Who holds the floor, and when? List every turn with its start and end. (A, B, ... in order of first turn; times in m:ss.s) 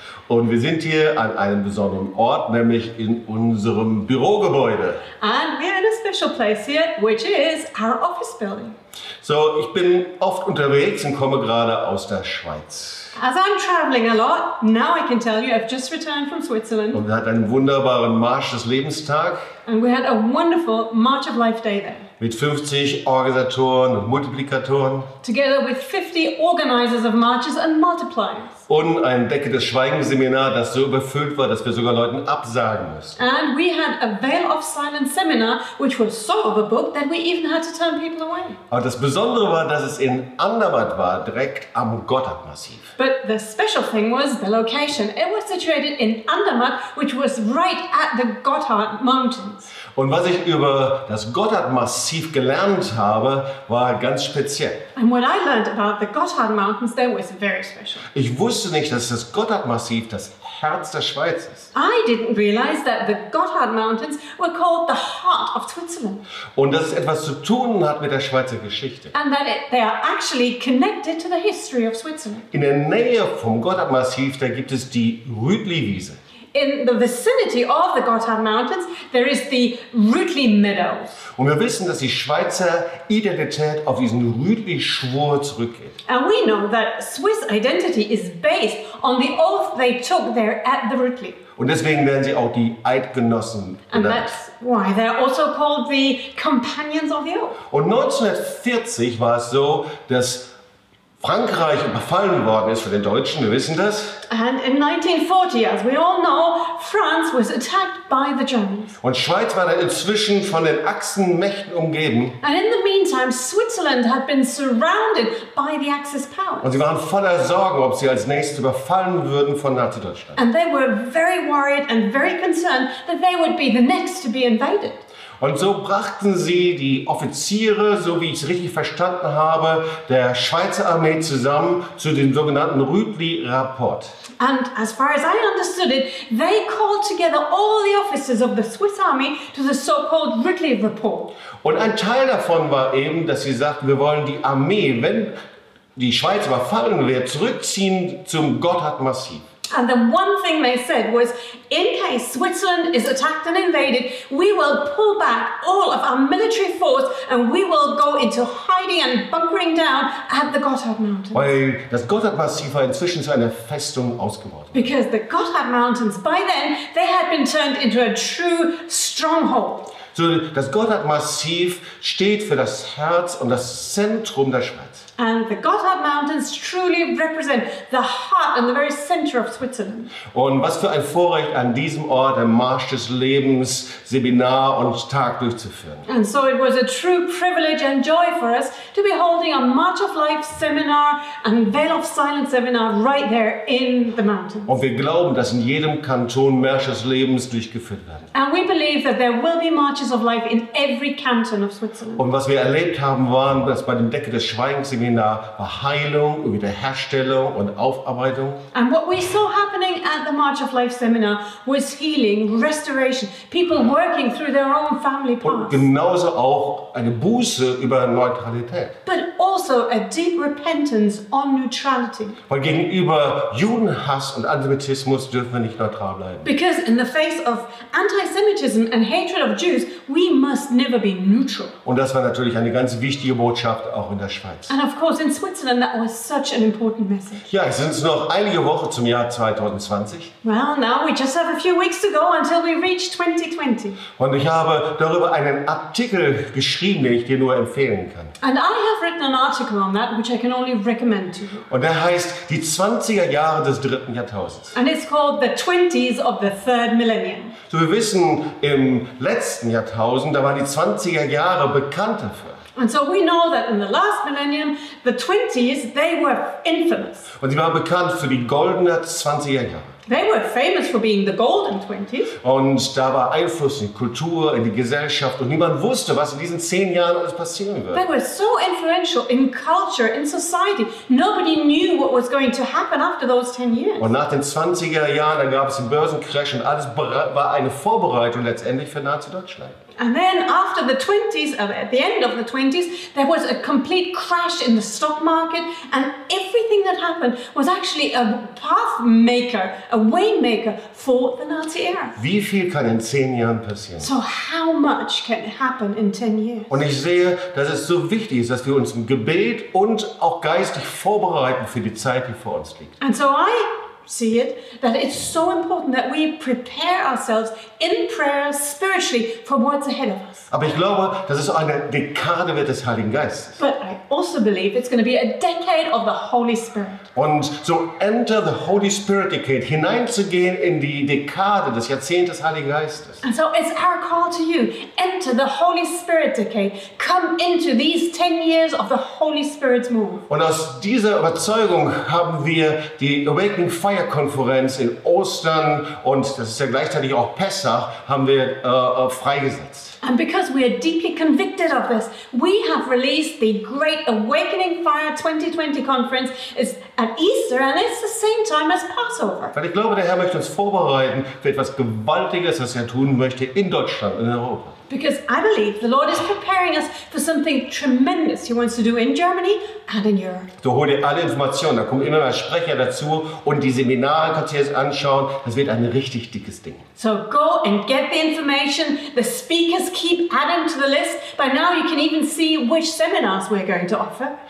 0:00.3-0:05.0 A
0:05.2-0:08.7 B
0:09.2-0:13.1 A
0:13.2-0:17.0 B
0:16.9-0:19.4 A
0:19.6-0:22.0 B
0:22.2-0:25.1 A
0:25.2-0:28.6 B
0:28.7-0:33.2 A
0:33.2-0:38.6 B
0:38.7-0:42.9 A
0:43.0-0:49.7 B
0:49.9-0:54.8 A
0:55.0-0:58.0 B
0:58.1-1:01.7 A
1:01.7-1:06.2 B
1:06.6-1:09.1 A
1:09.1-1:12.4 B
1:12.5-1:16.2 A
1:16.5-1:21.2 B
1:21.4-1:25.9 A
1:26.1-1:31.4 B
1:31.6-1:34.3 A
1:33.9-1:37.6 B
1:37.7-1:40.5 A
1:41.2-1:44.2 A
1:44.3-1:49.0 B
1:49.0-1:52.4 A
1:52.4-1:56.8 B
1:56.6-2:00.4 A
2:00.4-2:05.0 B
2:05.4-2:14.1 A
2:14.4-2:21.3 B
2:21.6-2:25.3 A
2:26.0-2:29.4 A
2:29.7-2:41.5 B
2:41.3-2:44.9 A
2:44.7-2:49.9 B
2:50.1-2:55.0 A
2:55.2-3:00.1 B
3:00.3-3:06.0 A
3:06.0-3:14.8 B
3:14.7-3:18.3 A
3:18.3-3:22.2 B
3:22.2-3:28.6 A
3:28.7-3:35.8 B
3:35.4-3:38.9 A
3:39.0-3:42.4 B
3:42.5-3:46.5 A
3:46.4-3:51.7 B
3:51.8-3:54.7 A
3:54.7-3:57.5 B
3:57.5-4:00.3 A
4:00.4-4:04.0 B
4:04.2-4:08.3 A
4:08.4-4:11.6 B
4:11.7-4:14.7 A
4:14.7-4:17.5 B
4:17.7-4:22.6 A
4:22.7-4:27.3 B
4:27.4-4:29.9 A
4:30.1-4:32.3 B
4:32.4-4:38.0 A
4:37.9-4:44.1 B
4:44.0-4:49.8 A
4:50.0-5:02.2 B
5:02.2-5:04.1 A
5:04.0-5:06.7 B
5:06.7-5:12.9 A
5:13.0-5:20.4 B
5:20.5-5:23.6 A
5:23.6-5:27.0 B
5:27.1-5:33.2 A
5:33.2-5:40.2 B
5:40.3-5:50.0 A
5:50.0-5:59.5 B
5:59.5-6:04.7 A
6:04.9-6:10.5 B
6:10.6-6:16.8 A
6:17.0-6:24.3 B